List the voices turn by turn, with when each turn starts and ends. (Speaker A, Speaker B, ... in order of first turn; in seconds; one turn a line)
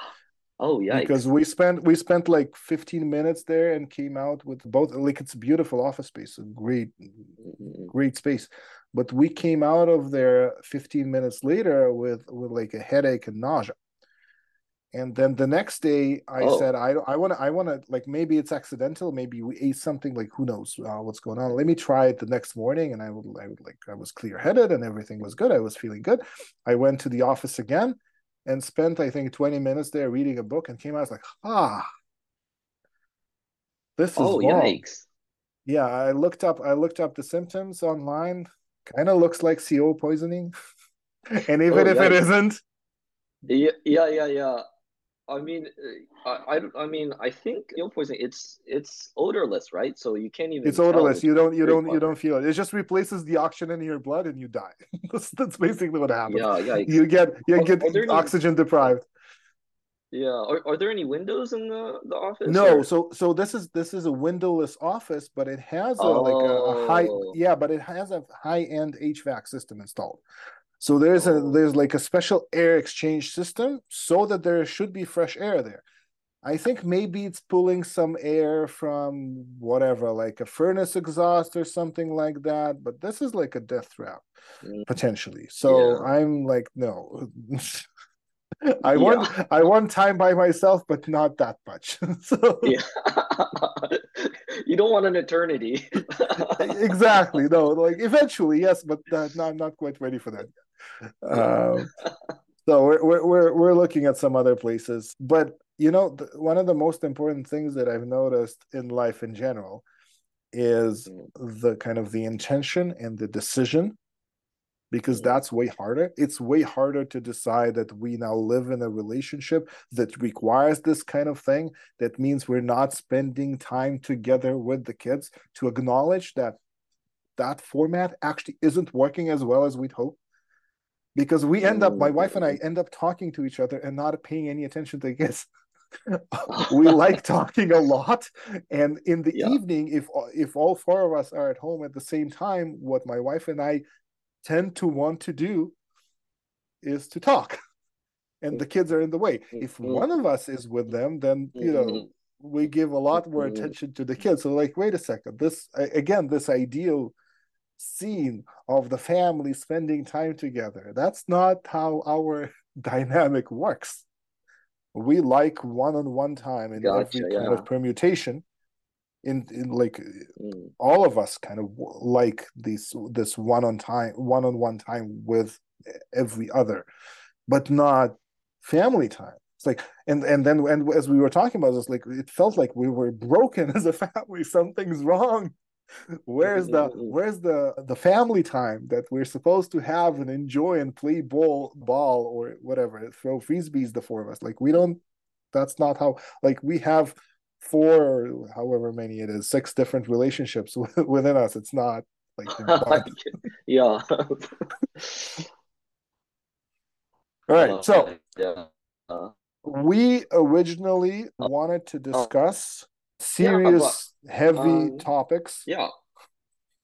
Speaker A: 0.6-1.3
Speaker B: 0.9-13.7
Speaker A: 7.4-7.9
Speaker B: 14.9-31.8
Speaker A: 16.4-16.7
Speaker B: 34.0-34.8
Speaker A: 34.2-35.1
Speaker B: 35.6-40.5
Speaker B: 41.3-42.6
Speaker A: 41.7-42.2
Speaker A: 43.5-44.6
Speaker A: 45.3-52.1
Speaker B: 50.6-59.0
Speaker A: 56.3-57.0
Speaker A: 57.5-58.9
Speaker A: 60.1-62.9
Speaker B: 62.5-70.2
Speaker A: 66.0-67.3
Speaker B: 70.8-75.8
Speaker A: 71.2-71.6
Speaker B: 76.4-84.2
Speaker B: 84.9-87.8
Speaker A: 85.7-86.1
Speaker B: 88.7-92.8
Speaker A: 88.9-89.3
Speaker A: 92.6-96.7
Speaker B: 96.4-100.5
Speaker B: 101.2-101.9
Speaker A: 101.3-102.1
Speaker B: 102.6-109.8
Speaker B: 110.5-114.0
Speaker B: 114.9-126.6
Speaker A: 115.1-115.4
Speaker B: 127.4-130.2
Speaker B: 131.1-135.5
Speaker A: 131.6-132.6
Speaker B: 136.1-143.8
Speaker A: 136.5-137.2
Speaker B: 144.4-145.7
Speaker B: 146.8-147.6
Speaker B: 148.4-157.1
Speaker A: 149.6-150.1
Speaker A: 151.6-152.1
Speaker A: 153.3-153.7
Speaker B: 157.8-164.1
Speaker B: 164.9-168.4
Speaker A: 166.8-167.7
Speaker B: 169.2-176.9
Speaker A: 170.4-170.7
Speaker B: 177.5-185.5
Speaker B: 186.3-195.0
Speaker A: 186.4-187.2
Speaker B: 195.5-203.1
Speaker A: 202.5-205.4
Speaker B: 207.5-208.1
Speaker A: 207.5-209.3
Speaker B: 209.6-215.7
Speaker A: 213.4-214.0
Speaker A: 214.5-215.1